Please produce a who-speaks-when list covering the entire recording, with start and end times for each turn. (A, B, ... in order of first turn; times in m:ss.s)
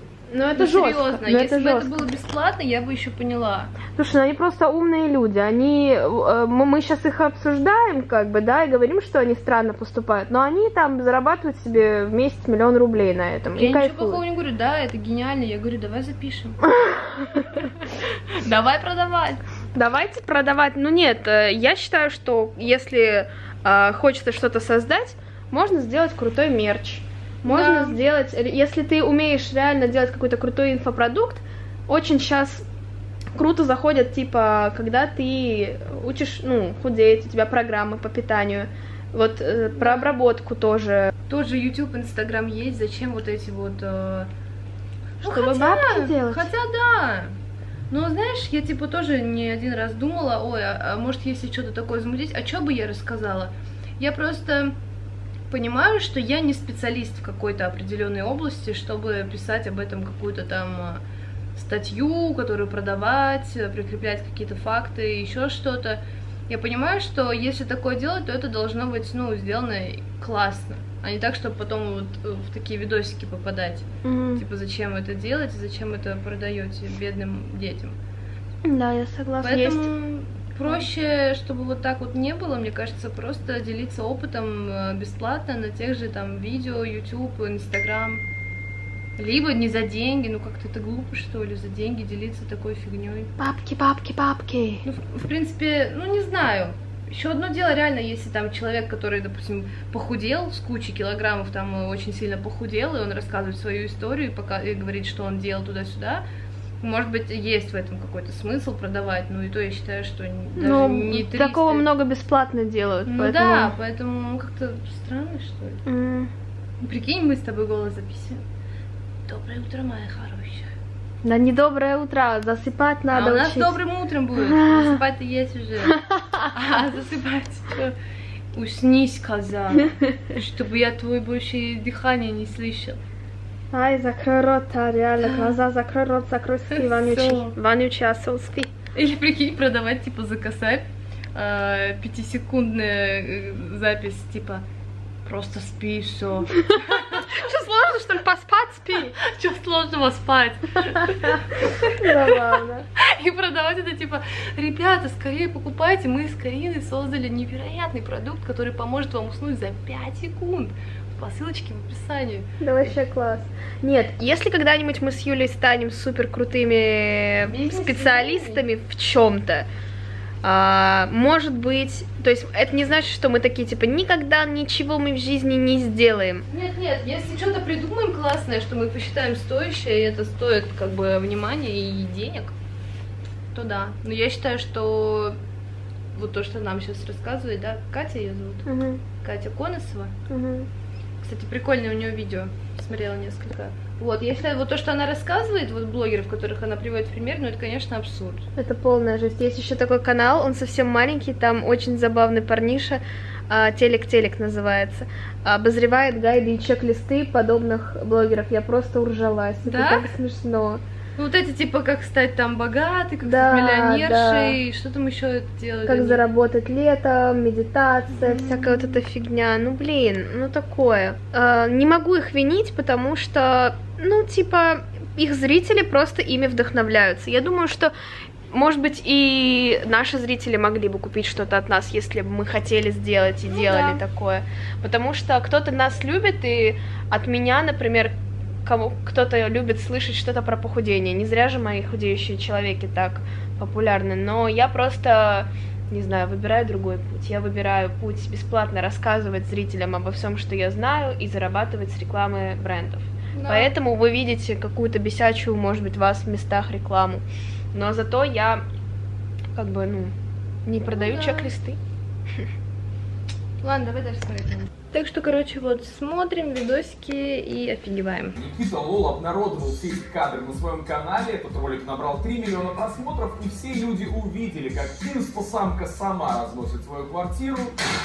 0:00.3-0:02.0 A
0:00.6-0:03.7 B
0:03.9-0:14.2 A
0:13.6-0:16.6 B
0:16.7-0:17.7 A
0:18.4-0:19.4 B
0:19.8-0:32.6 A
0:27.4-0:28.0 B
0:33.4-0:41.1 A
0:39.8-0:40.1 B
0:41.3-0:44.3 B
0:45.2-0:46.5 A
0:45.2-0:47.4 B
0:47.9-0:54.8 B
0:55.5-1:01.0 B
1:01.6-1:18.0 B
1:14.0-1:14.4 A
1:18.6-1:19.9 A
1:19.4-1:28.2 B
1:29.2-1:33.3 B
1:33.4-1:34.8 A
1:34.8-1:46.2 B
1:46.8-1:51.9 B
1:50.6-1:53.7 A
1:53.1-1:55.8 B
1:55.9-1:56.3 A
1:56.8-1:58.4 B
1:59.3-2:00.7 B
2:01.2-2:03.8 A
2:03.1-2:06.0 B
2:04.4-2:05.0 A
2:05.9-2:06.4 A
2:06.5-2:08.0 B
2:08.5-2:13.0 B
2:13.7-2:18.7 A
2:15.2-2:15.6 B
2:16.7-2:17.6 B
2:19.0-2:24.6 B
2:25.3-2:27.4 B
2:26.7-2:29.2 A
2:29.2-2:31.9 B
2:31.3-2:32.9 A
2:33.0-2:42.5 B
2:42.6-2:49.7 A
2:47.5-2:48.6 B
2:50.4-2:56.5 A
2:56.5-3:02.6 B
3:03.5-3:05.4 B
3:06.1-3:08.7 B
3:08.7-3:09.0 A
3:09.2-3:10.1 B
3:10.3-3:10.7 A
3:11.2-3:18.5 B
3:18.6-3:30.8 A
3:29.6-3:30.1 B
3:31.2-3:36.2 B
3:33.2-3:34.6 A
3:35.9-3:47.9 A
3:38.2-3:39.0 B
3:48.5-3:58.1 A
3:53.5-3:54.0 B
3:58.6-4:18.6 A
4:13.3-4:13.7 B
4:19.5-4:20.2 A
4:20.7-4:21.8 A
4:20.9-4:21.5 B
4:23.6-4:28.4 B
4:28.4-4:37.8 C